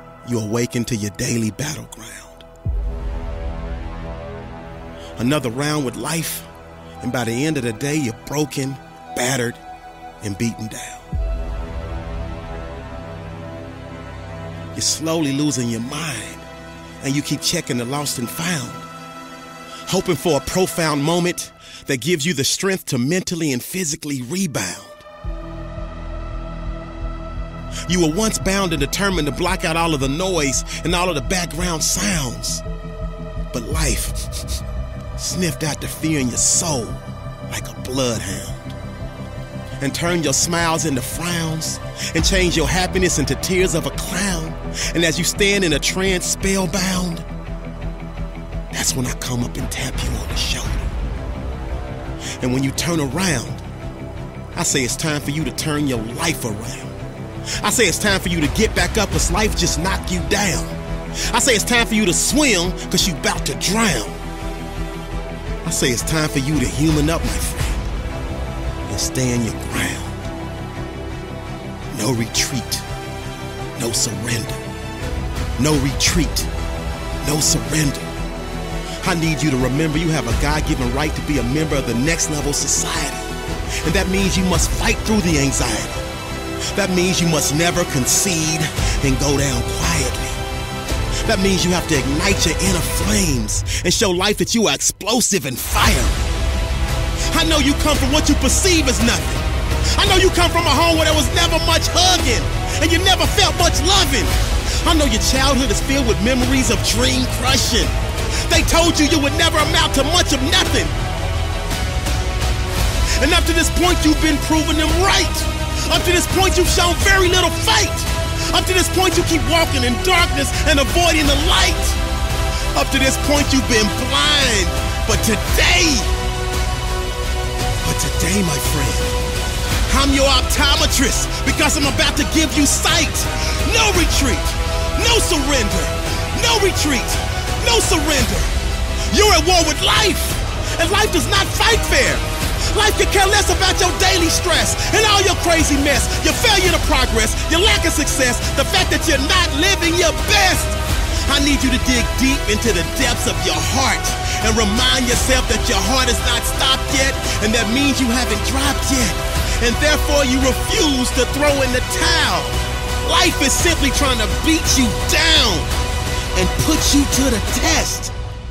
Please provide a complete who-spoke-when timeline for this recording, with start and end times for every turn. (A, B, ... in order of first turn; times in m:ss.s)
0:00.2-0:02.5 A
0:05.2-0:06.5 A
0:07.0-0:09.6 A
0:10.2-0:11.1 A
0:14.7-0:16.5 A
0:17.0-0:18.9 A
0:19.9-0:25.0 A
0:27.9-0:32.6 A
0:33.5-0:34.6 A
0:35.2-0:38.8 A
0:39.8-0:47.3 A
0:48.7-0:50.9 A
0:52.4-0:53.6 A
0:54.6-0:57.0 A
0:57.6-1:04.2 A
1:05.6-1:07.9 A
1:08.9-1:10.2 A
1:11.9-1:12.9 A
1:13.8-1:14.6 A
1:15.6-1:16.5 A
1:17.2-1:18.1 A
1:19.0-1:26.1 A
1:26.7-1:30.4 A
1:31.2-1:36.3 A
1:37.3-1:51.0 A
1:53.2-2:02.0 A
2:02.7-2:06.1 A
2:07.8-2:09.2 A
2:09.9-2:45.7 A
2:46.3-2:48.1 A